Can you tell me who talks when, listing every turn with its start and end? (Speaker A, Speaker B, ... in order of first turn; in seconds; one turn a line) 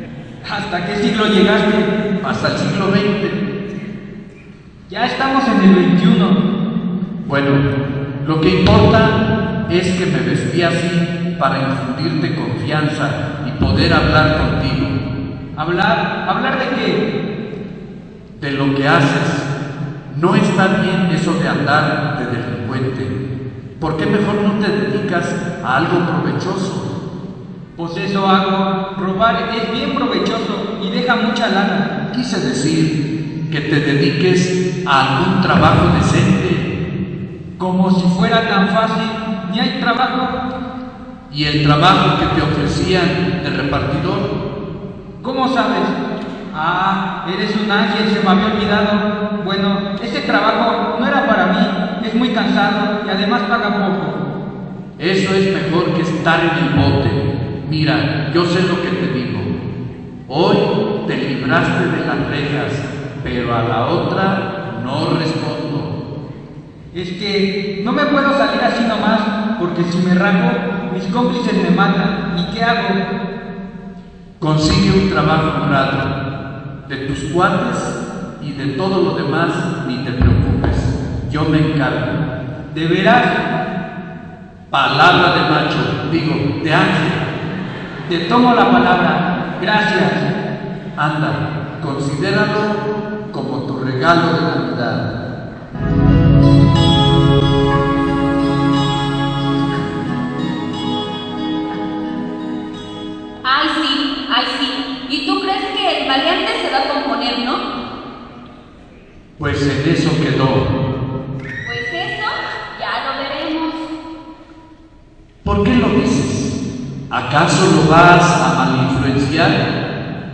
Speaker A: 0.5-1.9
Speaker B: 2.2-3.4
Speaker A: 4.9-6.4
Speaker B: 7.3-7.7
Speaker B: 8.2-15.0
Speaker A: 15.6-17.1
Speaker B: 18.4-19.5
Speaker B: 20.1-23.1
Speaker B: 23.8-26.9
Speaker A: 27.8-31.9
Speaker B: 32.1-33.0
Speaker B: 33.5-36.7
Speaker A: 37.6-40.4
Speaker B: 41.3-44.4
Speaker A: 45.2-46.0
Speaker A: 46.5-54.2
Speaker B: 55.0-59.6
Speaker B: 60.3-66.0
Speaker A: 66.9-73.0
Speaker B: 74.4-76.1
Speaker B: 76.9-82.2
Speaker A: 82.7-83.4
Speaker B: 84.7-87.3
Speaker A: 88.1-90.3
Speaker B: 91.0-95.1
Speaker C: 103.5-107.6
Speaker B: 109.4-110.7
Speaker C: 111.6-113.9
Speaker B: 115.4-116.6
Speaker B: 117.1-119.6